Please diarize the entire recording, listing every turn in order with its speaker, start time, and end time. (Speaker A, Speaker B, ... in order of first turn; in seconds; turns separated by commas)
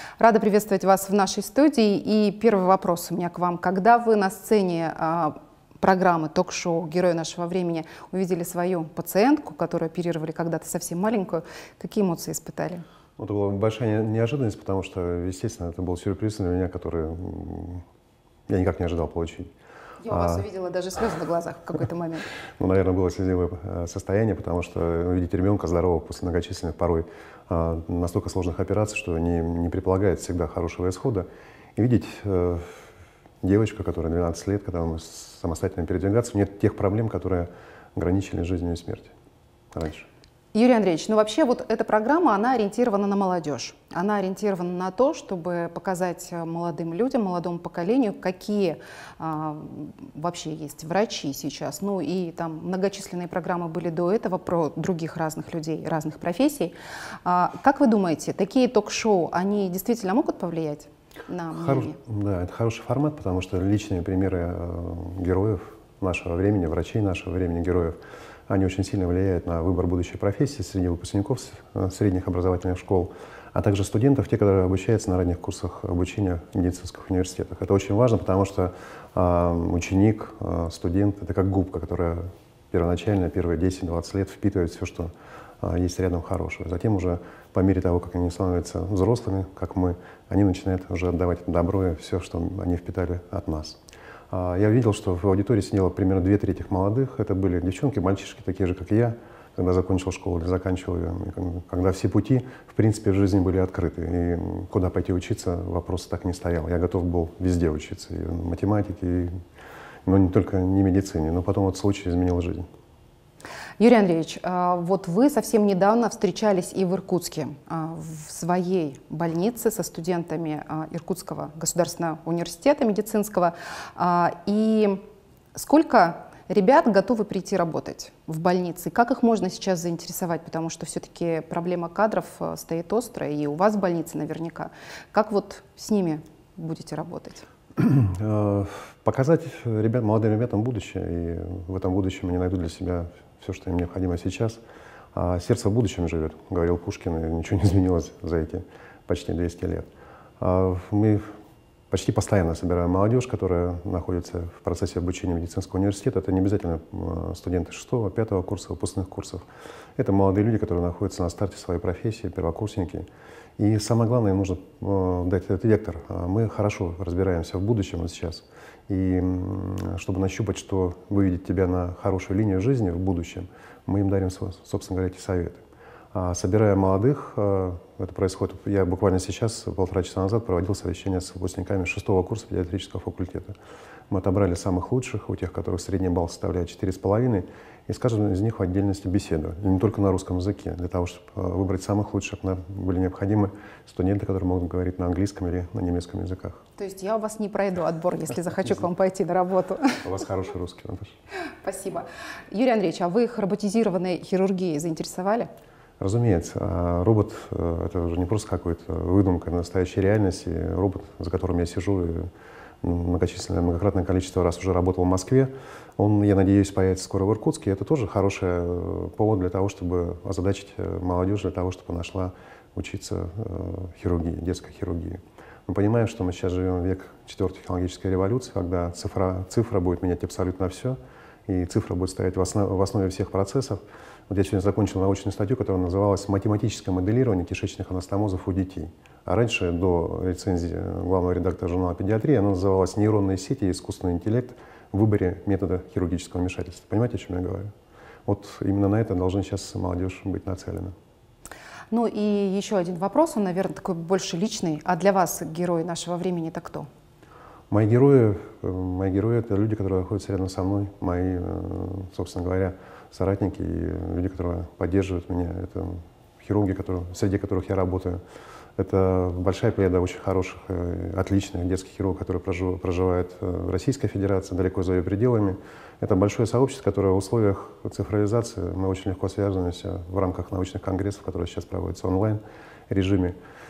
Speaker A: 0.2-12.8, Speaker B: 13.2-17.8, Speaker B: 18.5-19.5, Speaker A: 20.0-22.3, Speaker B: 20.1-20.4, Speaker B: 22.6-32.7, Speaker B: 33.4-39.1, Speaker B: 39.7-40.1, Speaker A: 40.5-62.0, Speaker B: 61.5-68.0, Speaker B: 68.5-85.1, Speaker B: 85.6-93.8, Speaker B: 94.3-109.3, Speaker B: 110.0-112.7, Speaker A: 113.8-125.0, Speaker A: 125.5-137.5, Speaker B: 137.8-144.6, Speaker B: 145.1-149.9, Speaker B: 150.4-151.2, Speaker B: 151.9-159.4, Speaker B: 160.0-163.1, Speaker B: 163.6-175.6, Speaker B: 176.1-183.5, Speaker B: 184.1-196.6, Speaker A: 196.8-200.0, Speaker B: 200.0-201.1, Speaker A: 201.6-205.5, Speaker B: 206.0-212.3, Speaker B: 212.8-247.7, Speaker B: 248.2-250.9, Speaker A: 251.9-256.9, Speaker B: 257.7-268.2, Speaker B: 268.8-283.3